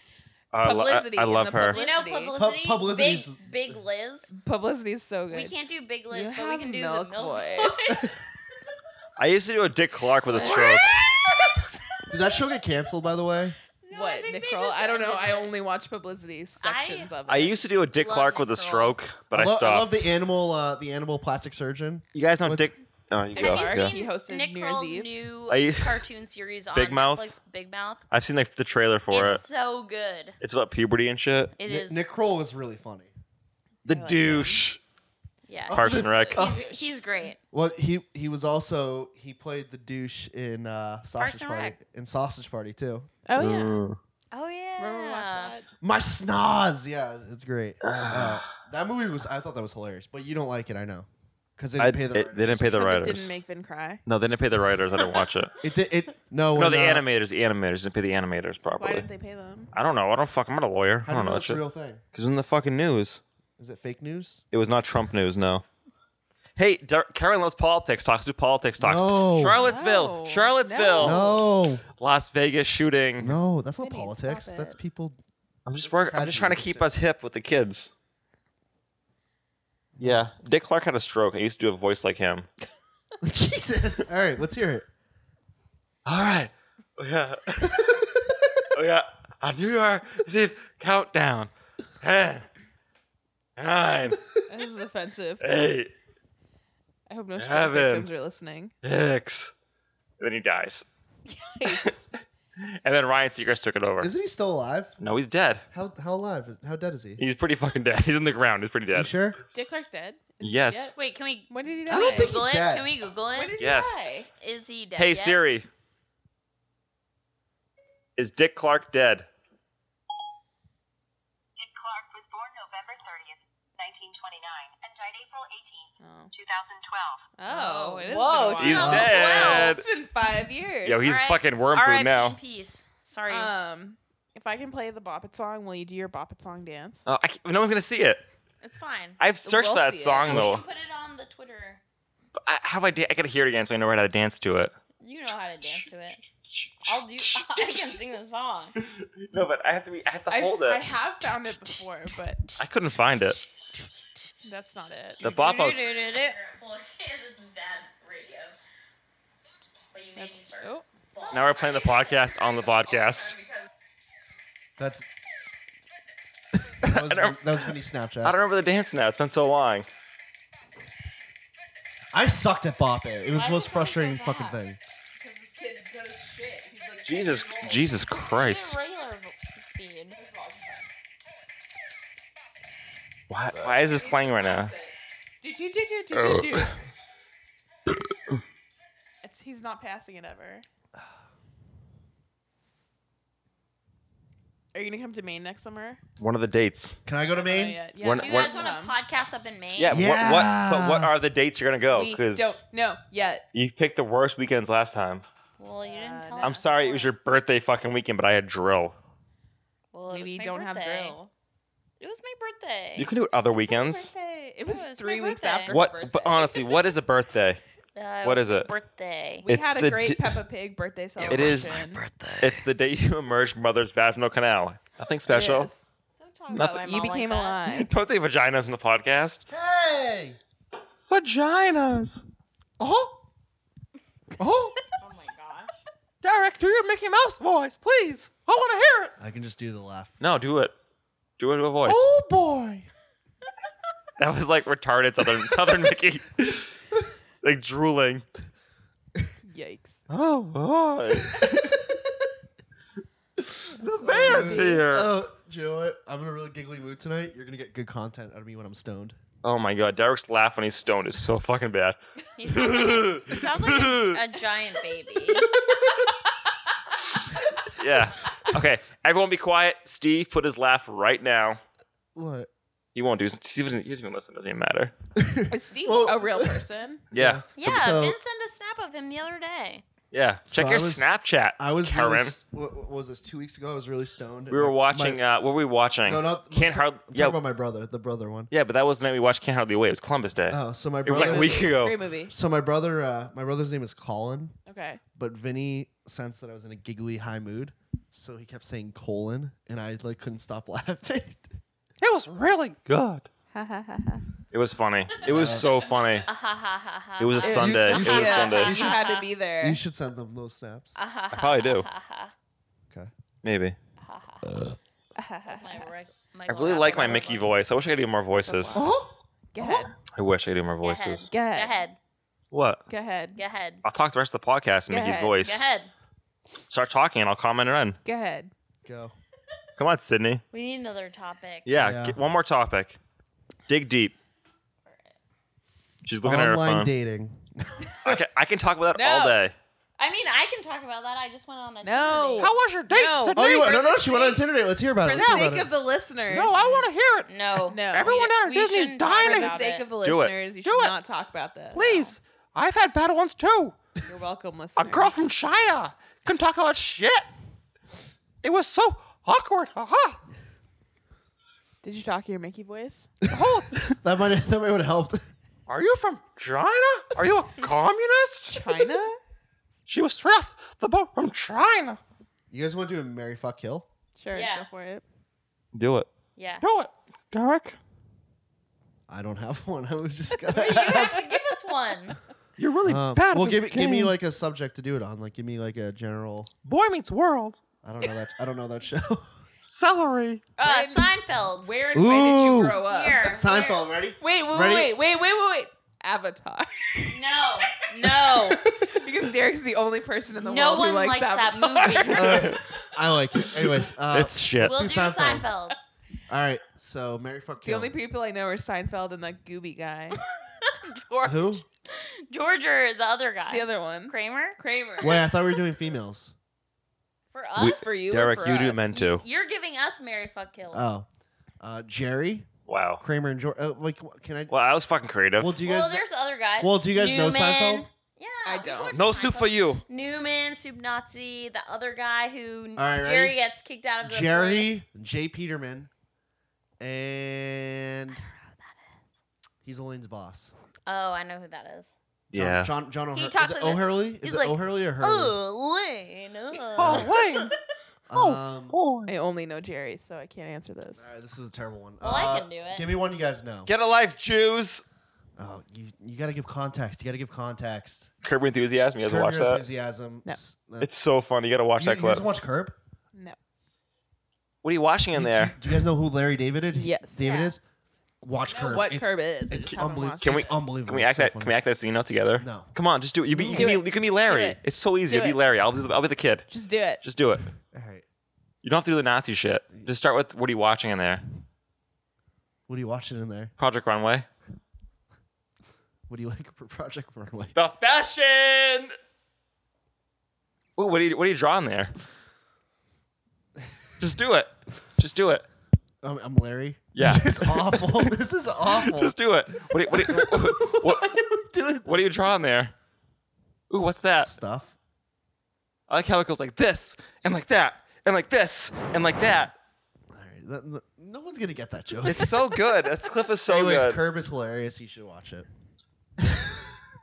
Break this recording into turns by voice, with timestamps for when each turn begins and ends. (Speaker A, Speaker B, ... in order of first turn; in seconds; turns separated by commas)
Speaker A: 0.5-1.8, Speaker B: 0.6-2.4, Speaker C: 1.6-4.3, Speaker D: 2.3-3.7, Speaker B: 4.3-5.5, Speaker C: 5.3-8.2, Speaker B: 6.1-7.9, Speaker A: 9.2-10.9, Speaker B: 10.3-11.7, Speaker C: 10.4-10.7, Speaker D: 12.1-13.6, Speaker C: 13.8-15.5, Speaker B: 13.9-17.6, Speaker C: 16.6-17.1, Speaker A: 17.3-20.1, Speaker C: 17.9-19.0, Speaker D: 19.3-22.7, Speaker A: 22.1-23.9, Speaker B: 23.3-25.1, Speaker C: 23.3-28.0, Speaker A: 25.5-26.0, Speaker A: 26.7-27.3, Speaker A: 28.1-29.4, Speaker C: 29.1-30.4, Speaker A: 30.4-31.5, Speaker C: 31.6-32.0, Speaker D: 31.6-33.1, Speaker A: 33.8-34.8, Speaker B: 33.9-34.7, Speaker C: 35.5-37.4, Speaker D: 35.7-36.6, Speaker A: 35.7-36.5, Speaker B: 36.3-37.2, Speaker D: 37.5-43.1, Speaker C: 41.2-41.8, Speaker B: 43.3-43.8, Speaker A: 43.4-44.0, Speaker C: 44.3-45.6, Speaker B: 44.8-45.6, Speaker D: 45.8-52.9, Speaker A: 47.8-48.5, Speaker A: 51.8-53.3, Speaker B: 52.6-54.0, Speaker A: 54.0-55.5, Speaker D: 55.6-57.0, Speaker A: 56.5-59.1, Speaker B: 58.8-59.7, Speaker A: 59.7-61.6, Speaker D: 61.0-62.0, Speaker A: 62.1-63.2, Speaker D: 63.6-64.4, Speaker A: 64.5-65.6, Speaker A: 66.5-71.3, Speaker D: 68.8-69.6, Speaker B: 69.5-71.4, Speaker D: 71.0-71.8, Speaker A: 72.0-73.4, Speaker D: 73.2-75.2, Speaker B: 73.8-74.8, Speaker A: 75.7-77.9, Speaker D: 75.8-76.9, Speaker D: 80.0-80.2, Speaker A: 80.0-82.5, Speaker D: 83.2-84.9, Speaker A: 86.0-88.1, Speaker D: 87.7-88.4, Speaker A: 88.7-92.5, Speaker A: 93.6-94.3, Speaker B: 94.5-95.4, Speaker A: 95.4-95.9, Speaker B: 97.1-98.7, Speaker A: 97.3-98.1, Speaker A: 98.8-99.5, Speaker A: 100.2-100.8, Speaker B: 101.2-102.0, Speaker A: 102.6-104.1, Speaker D: 104.0-105.0, Speaker A: 105.0-105.6, Speaker D: 105.7-107.2, Speaker A: 107.2-109.1, Speaker D: 108.9-109.4, Speaker B: 109.5-110.9, Speaker A: 110.4-110.9, Speaker C: 110.9-113.6, Speaker B: 111.5-112.3, Speaker D: 111.8-112.9, Speaker B: 113.3-114.3, Speaker A: 113.6-114.0, Speaker C: 114.4-115.4, Speaker A: 115.0-115.7, Speaker A: 118.2-119.3, Speaker E: 121.5-127.3, Speaker B: 126.0-126.3, Speaker B: 127.4-131.1, Speaker C: 127.5-129.8, Speaker A: 128.6-129.8, Speaker D: 128.7-129.2, Speaker A: 130.8-132.4, Speaker C: 131.0-133.5, Speaker B: 133.3-137.0, Speaker A: 137.1-138.2, Speaker C: 138.6-139.2, Speaker A: 139.2-140.6, Speaker B: 139.4-140.5, Speaker C: 140.2-141.8, Speaker A: 142.4-144.7, Speaker C: 145.0-146.2, Speaker A: 146.5-148.0, Speaker C: 146.8-148.7, Speaker A: 148.8-151.0, Speaker B: 150.3-152.4, Speaker A: 152.6-153.4, Speaker B: 154.4-155.2, Speaker A: 155.2-155.9, Speaker C: 155.2-158.6, Speaker C: 159.9-162.4, Speaker B: 160.2-160.8, Speaker A: 161.3-163.4, Speaker D: 164.8-165.1, Speaker D: 166.8-168.4, Speaker A: 166.8-167.4, Speaker A: 168.2-169.9, Speaker D: 172.1-174.8, Speaker C: 173.3-174.6, Speaker B: 175.2-178.1, Speaker A: 177.0-178.8, Speaker C: 178.2-180.2, Speaker B: 180.1-180.9, Speaker A: 183.3-184.7, Speaker B: 183.8-186.7, Speaker A: 186.1-186.7, Speaker B: 189.2-190.7, Speaker B: 194.7-196.0, Speaker A: 196.2-197.0, Speaker D: 197.1-197.8, Speaker B: 197.3-199.0, Speaker A: 198.0-198.6, Speaker C: 198.2-200.0, Speaker A: 199.8-202.6, Speaker D: 199.9-201.1, Speaker B: 201.9-203.4, Speaker A: 203.5-205.2, Speaker C: 205.6-207.1, Speaker B: 205.8-206.6, Speaker A: 206.4-208.9, Speaker C: 209.9-211.2, Speaker B: 210.1-211.3, Speaker C: 212.0-213.1, Speaker A: 213.0-214.1, Speaker B: 213.7-216.7, Speaker C: 214.6-215.8, Speaker A: 215.7-217.6, Speaker C: 217.9-219.4, Speaker A: 218.2-218.7, Speaker B: 219.4-222.0, Speaker A: 219.5-220.4, Speaker A: 221.2-225.7, Speaker B: 225.3-225.8, Speaker C: 226.2-227.6, Speaker A: 226.5-226.8, Speaker B: 226.6-227.9, Speaker A: 227.7-229.4, Speaker D: 229.5-230.4, Speaker A: 231.1-232.2, Speaker A: 232.8-233.1, Speaker A: 234.4-234.9, Speaker C: 235.0-235.8, Speaker A: 236.2-239.1, Speaker D: 239.2-240.2, Speaker A: 240.2-240.7, Speaker A: 241.4-242.1, Speaker B: 241.9-242.3, Speaker A: 244.2-246.7, Speaker A: 247.4-248.2, Speaker B: 249.4-250.0, Speaker A: 250.1-251.7, Speaker D: 251.2-252.3, Speaker D: 253.4-259.2, Speaker B: 253.8-254.8, Speaker A: 253.9-255.1, Speaker A: 259.4-262.0, Speaker C: 262.4-265.5, Speaker A: 262.5-264.2, Speaker A: 267.7-271.6, Speaker D: 272.1-272.5, Speaker A: 272.9-274.9, Speaker D: 275.2-278.2, Speaker B: 275.5-277.0, Speaker A: 277.1-277.4, Speaker C: 277.6-279.8, Speaker A: 280.1-282.3, Speaker D: 280.5-285.2, Speaker A: 284.5-287.4, Speaker D: 286.0-288.5, Speaker A: 288.5-292.0, Speaker D: 290.5-291.7, Speaker B: 291.1-292.3, Speaker D: 292.3-294.6, Speaker B: 294.7-295.0, Speaker D: 295.1-301.5, Speaker A: 302.0-303.3, Speaker B: 303.5-304.2, Speaker A: 304.5-306.3, Speaker D: 305.2-305.7, Speaker C: 306.2-309.3, Speaker A: 307.2-309.0, Speaker B: 307.4-309.8, Speaker D: 309.6-311.0, Speaker C: 310.9-312.3, Speaker A: 311.3-311.9, Speaker A: 313.4-313.8, Speaker C: 314.0-314.5, Speaker D: 314.4-314.8, Speaker B: 315.1-315.9, Speaker C: 315.5-317.5, Speaker A: 316.5-318.9, Speaker B: 318.4-319.9, Speaker A: 319.6-321.3, Speaker C: 320.8-322.0, Speaker B: 321.3-321.7, Speaker A: 322.5-322.8, Speaker B: 322.9-323.4, Speaker C: 323.4-323.8, Speaker A: 323.8-325.6, Speaker B: 324.9-325.4, Speaker C: 325.4-325.9, Speaker A: 326.7-328.0, Speaker B: 328.0-328.5, Speaker D: 328.8-329.1, Speaker A: 329.8-330.4, Speaker C: 330.5-331.7, Speaker A: 331.6-333.0, Speaker D: 331.7-332.2, Speaker A: 333.7-334.1, Speaker C: 334.9-335.1, Speaker A: 336.0-336.9, Speaker D: 336.2-338.2, Speaker A: 338.0-339.5, Speaker B: 338.9-339.4, Speaker C: 340.0-342.5, Speaker B: 341.8-343.4, Speaker A: 342.4-344.2, Speaker D: 343.3-345.7, Speaker C: 343.6-344.4, Speaker B: 345.0-346.9, Speaker A: 345.2-345.5, Speaker A: 346.3-347.3, Speaker C: 347.3-349.9, Speaker B: 347.7-348.3, Speaker A: 347.9-350.9, Speaker B: 349.2-352.1, Speaker A: 351.7-353.8, Speaker B: 354.0-355.2, Speaker A: 354.8-357.3, Speaker A: 358.4-360.2, Speaker B: 361.8-363.1, Speaker D: 363.2-365.3, Speaker A: 363.3-364.0, Speaker A: 365.7-368.6, Speaker B: 368.5-369.2, Speaker A: 369.9-372.0, Speaker D: 372.5-373.9, Speaker B: 374.2-375.0, Speaker C: 374.3-374.7, Speaker A: 375.7-376.1, Speaker C: 376.4-376.6, Speaker A: 376.6-377.8, Speaker D: 379.1-381.4, Speaker C: 380.5-382.1, Speaker A: 382.6-384.1, Speaker D: 382.8-386.5, Speaker A: 386.6-387.6, Speaker D: 387.8-389.4, Speaker A: 389.6-390.4, Speaker C: 390.6-391.7, Speaker B: 390.6-393.4, Speaker D: 391.9-394.9, Speaker C: 392.8-393.9, Speaker B: 394.2-397.1, Speaker C: 397.0-398.6, Speaker D: 398.3-398.9, Speaker B: 398.9-402.5, Speaker C: 400.4-402.5, Speaker D: 402.1-405.5, Speaker A: 402.2-402.6, Speaker A: 403.6-404.8, Speaker C: 404.6-405.8, Speaker D: 406.3-407.9, Speaker B: 407.6-410.2, Speaker C: 410.6-415.2, Speaker D: 411.2-411.6, Speaker B: 413.5-415.2, Speaker D: 415.0-416.3, Speaker C: 417.3-418.0, Speaker A: 417.6-419.2, Speaker B: 417.6-418.9, Speaker C: 418.9-420.9, Speaker D: 420.7-421.1, Speaker D: 421.6-422.5, Speaker A: 422.7-423.0, Speaker D: 423.0-424.5, Speaker A: 424.5-425.6, Speaker D: 425.4-426.0, Speaker C: 425.6-434.8, Speaker D: 426.6-427.9, Speaker B: 428.4-429.1, Speaker A: 428.9-429.8, Speaker D: 432.8-433.4, Speaker D: 434.0-435.9, Speaker D: 436.8-438.2, Speaker D: 439.6-440.5, Speaker C: 440.9-441.9, Speaker D: 442.3-445.4, Speaker A: 442.3-442.7, Speaker C: 443.1-447.2, Speaker A: 446.8-447.5, Speaker D: 446.8-447.1, Speaker D: 448.1-448.8, Speaker A: 448.1-449.1, Speaker B: 449.1-451.1, Speaker D: 450.9-453.7, Speaker C: 452.0-452.9, Speaker A: 453.6-454.9, Speaker D: 455.4-458.1, Speaker A: 458.2-459.6, Speaker D: 459.0-460.9, Speaker A: 460.8-462.2, Speaker D: 461.8-462.8, Speaker A: 464.6-465.6, Speaker D: 465.1-467.6, Speaker B: 466.7-467.2, Speaker C: 467.2-467.6, Speaker D: 468.2-471.5, Speaker B: 468.5-470.5, Speaker A: 470.2-476.5, Speaker D: 472.4-472.7, Speaker D: 473.3-473.8, Speaker B: 473.4-475.4, Speaker B: 476.5-477.0, Speaker A: 477.0-477.5, Speaker D: 477.7-478.0, Speaker A: 478.6-481.2, Speaker D: 482.7-483.5, Speaker A: 483.6-484.3, Speaker D: 486.1-487.6, Speaker A: 487.5-488.9, Speaker A: 490.8-491.9, Speaker A: 494.0-495.4, Speaker D: 496.0-499.1, Speaker A: 496.9-498.1, Speaker A: 498.7-501.2, Speaker D: 499.7-502.1, Speaker A: 501.9-502.7, Speaker A: 503.7-504.3, Speaker D: 503.8-504.7, Speaker A: 505.9-509.5, Speaker D: 510.1-512.6, Speaker A: 512.0-514.0, Speaker D: 513.4-515.5